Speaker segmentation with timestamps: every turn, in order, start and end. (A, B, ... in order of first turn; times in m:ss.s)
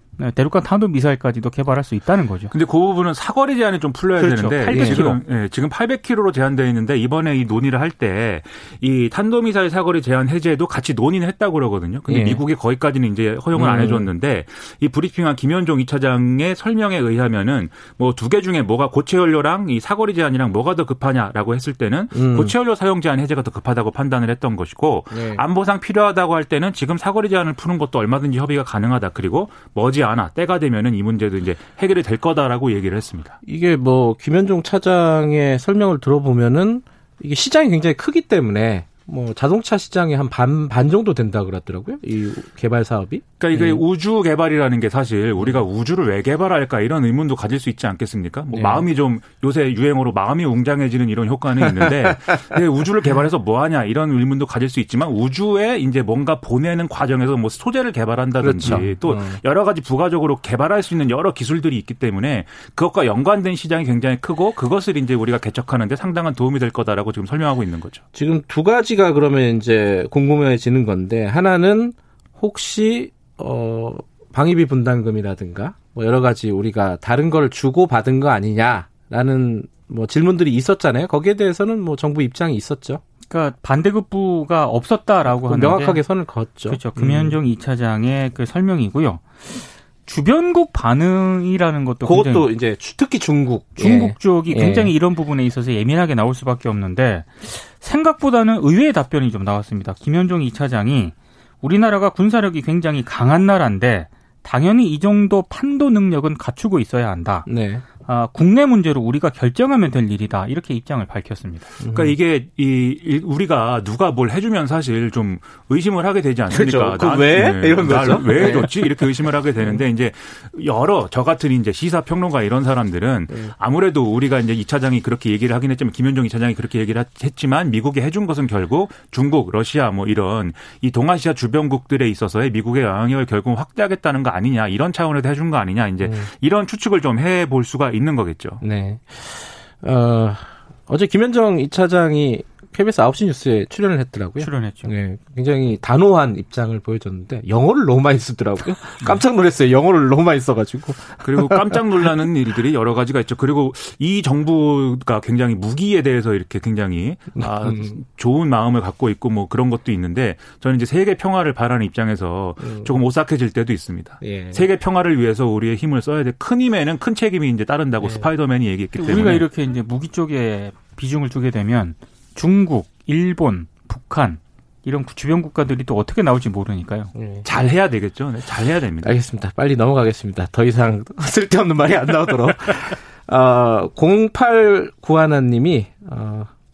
0:00.2-0:02.5 A
0:02.5-0:33.4 B
0:04.2-0:05.1 C
0:04.2-0:05.2 A
0:12.1-0:12.4 C
0:13.6-0:14.1 C
0:22.1-0:22.5 C
0:25.1-0:25.4 C
0:33.4-0:43.8 C
0:43.4-1:08.0 B
0:48.5-0:48.9 C
0:51.6-0:52.2 C
0:58.4-0:59.4 C
1:08.1-1:23.0 C
1:23.3-1:26.0 A
1:25.3-1:27.4 C
1:26.7-1:32.5 A
1:32.0-1:34.9 C
1:33.8-1:47.5 A
1:47.5-1:47.8 C
1:48.0-1:51.7 A
1:51.8-1:52.2 C
1:51.9-2:18.6 B
1:56.5-1:59.8 C
2:16.0-2:16.3 C
2:18.6-2:31.8 C
2:24.4-2:24.9 A
2:31.2-2:49.5 B
2:37.4-2:38.0 C
2:42.6-2:43.0 C
2:44.2-2:44.7 C
2:48.0-2:48.3 C
2:49.0-2:57.1 A
2:57.2-2:57.5 C
2:57.4-2:59.2 B
2:59.0-3:06.5 C